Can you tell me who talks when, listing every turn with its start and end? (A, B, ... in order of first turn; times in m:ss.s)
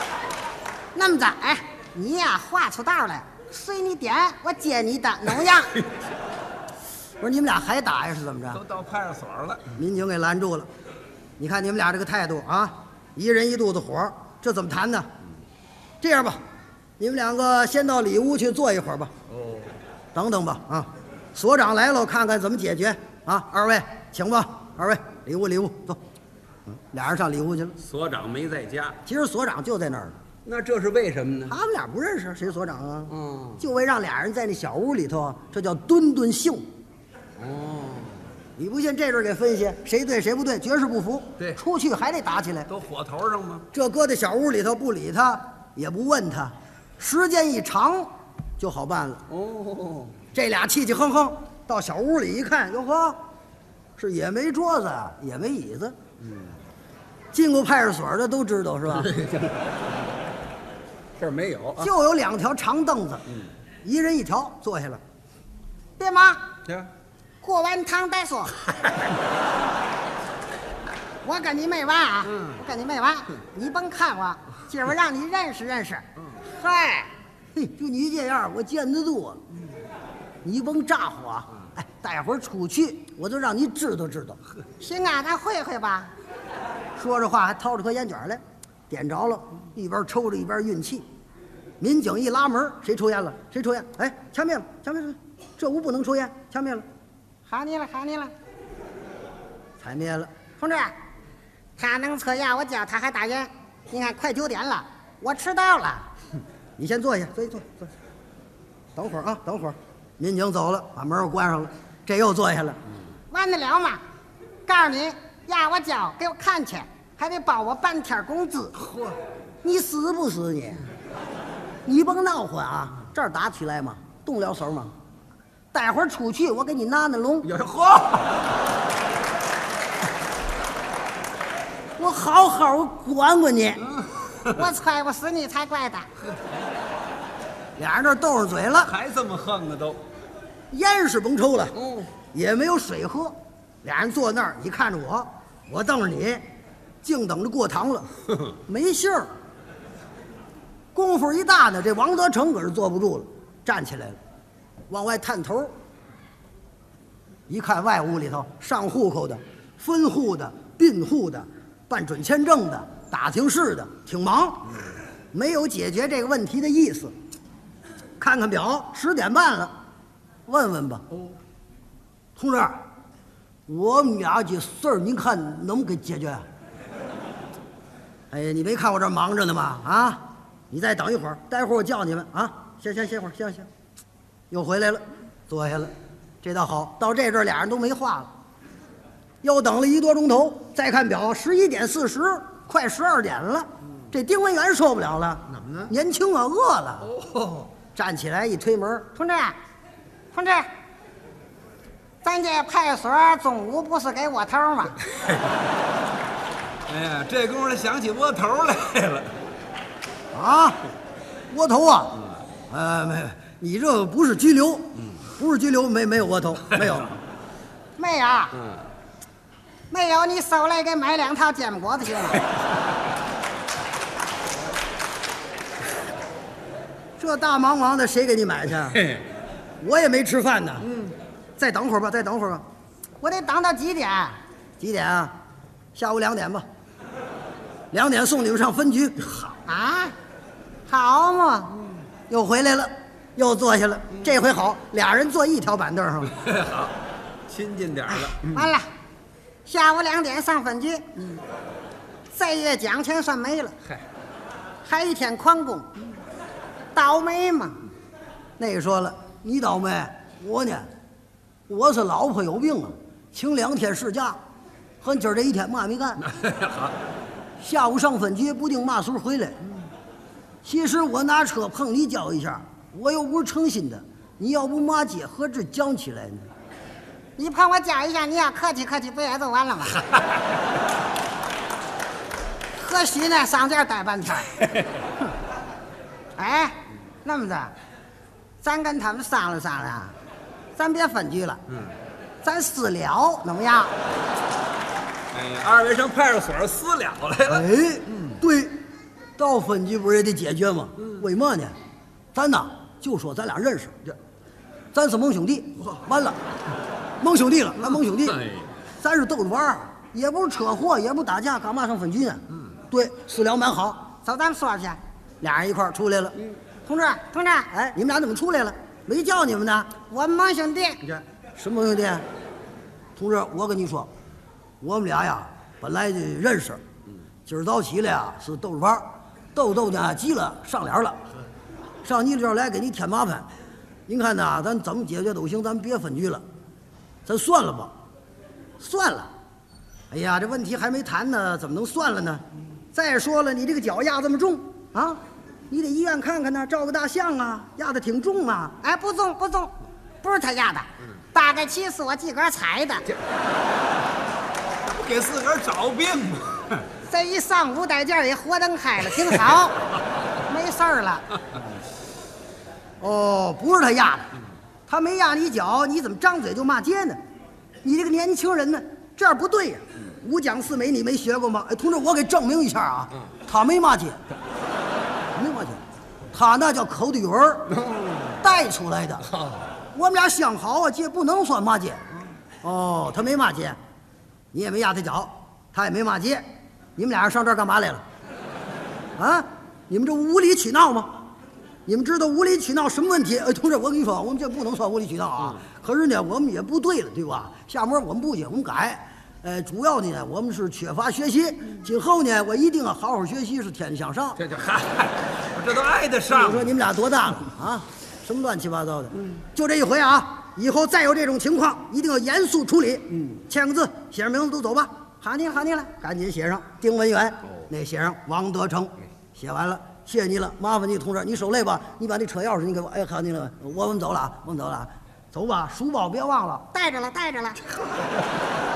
0:00.9-0:05.8 A
0:07.2-0:08.6 B
0:08.6-0:09.7 C
0:09.7-0:10.7 B
0:11.4-0:15.1 B
0:16.0-0:16.4 B
0:17.0-0:19.1 B
0:20.1-0:26.0 B
0:26.7-0:27.8 B
0:27.8-0:29.0 C
0:29.0-0:30.2 B
0:30.5-0:31.6 C
0:31.5-0:36.7 B
0:33.1-0:33.6 C
0:37.4-0:38.2 C
0:38.6-0:42.7 B
0:42.7-0:43.7 C
0:43.7-0:49.2 B
0:49.3-0:50.2 C
0:50.3-0:53.2 B
0:54.0-0:56.0 B
0:57.3-0:59.2 B
0:59.1-0:59.6 C
1:01.2-1:01.9 C
1:01.8-1:03.3 B
1:03.8-1:05.0 B
1:06.0-1:06.5 A
1:07.4-1:08.6 A
1:11.2-1:17.1 A
1:17.5-1:19.4 B
1:20.4-1:24.4 B
1:24.8-1:26.1 A
1:27.0-1:31.1 B
1:31.8-1:36.9 B
1:37.5-1:38.3 A
1:39.8-1:40.3 B
1:40.6-1:41.0 A
1:41.8-1:46.1 A
1:46.8-1:47.9 B
1:49.0-1:52.8 B
1:53.3-1:54.0 A
1:54.7-1:58.8 A
1:59.6-2:00.9 B
2:01.8-2:04.9 B
2:05.7-2:07.6 B
2:07.5-2:08.4 C
2:12.0-2:13.9 B
2:14.5-2:16.1 A
2:17.8-2:18.9 B
2:18.8-2:20.0 C
2:20.7-2:21.8 B
2:21.8-2:22.1 C
2:22.3-2:26.4 B
2:27.0-2:29.3 B
2:30.9-2:34.2 B
2:34.9-2:35.7 B
2:37.5-2:44.8 B
2:45.3-2:47.1 B
2:48.2-2:49.7 B
2:50.5-2:51.1 B
2:52.4-2:52.8 B
2:53.7-2:56.5 B
2:58.3-3:03.7 B
3:04.5-3:08.3 B
3:09.4-3:17.2 B
3:17.3-3:17.7 C
3:18.0-3:19.2 B
3:19.2-3:19.6 A
3:20.3-3:20.7 A
3:22.2-3:25.0 A
3:26.9-3:29.4 C
3:30.3-3:30.8 B
3:31.5-3:37.2 B
3:38.0-3:38.6 A
3:39.9-3:42.4 A
3:47.2-3:49.2 B
3:49.8-3:52.6 B
3:53.2-3:54.4 A
3:54.8-3:55.3 B
3:56.0-3:56.6 B
3:57.9-3:59.3 B
3:59.7-4:00.2 A
4:00.9-4:01.8 A
4:02.3-4:06.4 B
4:06.4-4:06.9 C
4:07.5-4:08.7 C
4:08.3-4:08.9 A
4:09.7-4:11.4 A
4:12.3-4:13.8 A
4:14.8-4:15.9 A
4:17.0-4:17.8 A
4:18.6-4:20.9 B
4:21.7-4:24.4 B
4:25.0-4:26.3 B
4:26.5-4:26.9 C
4:27.6-4:29.6 B
4:30.6-4:36.5 B
4:37.4-4:40.0 A
4:42.8-4:44.6 A
4:46.4-4:47.7 A
4:48.6-4:50.2 A
4:50.8-4:51.6 A
4:52.4-4:53.9 A
4:55.3-4:57.7 C
4:57.5-4:58.8 B
4:59.4-5:01.8 B
5:02.3-5:04.0 B
5:04.9-5:06.4 B
5:07.2-5:08.5 B
5:09.0-5:14.1 B
5:14.2-5:15.0 A
5:15.4-5:16.4 B
5:16.9-5:17.7 A
5:17.7-5:20.0 B
5:20.1-5:21.1 A
5:21.6-5:22.3 B
5:23.2-5:24.1 B
5:24.8-5:26.8 B
5:27.5-5:31.2 B
5:32.0-5:33.5 B
5:34.1-5:36.4 B
5:37.3-5:37.9 B
5:38.8-5:39.3 B
5:40.1-5:48.8 B
5:48.8-5:53.1 A
5:54.8-5:56.9 C
5:57.0-5:59.8 A
6:00.5-6:01.3 A
6:03.0-6:04.3 B
6:04.9-6:07.2 B
6:07.8-6:14.2 B
6:15.3-6:17.8 B
6:18.4-6:19.4 B
6:19.9-6:23.8 B
6:24.5-6:26.4 B
6:27.0-6:28.0 B
6:29.2-6:31.2 B
6:31.9-6:44.4 B
6:44.4-6:46.7 C
6:46.3-7:06.7 B
7:06.7-7:07.6 A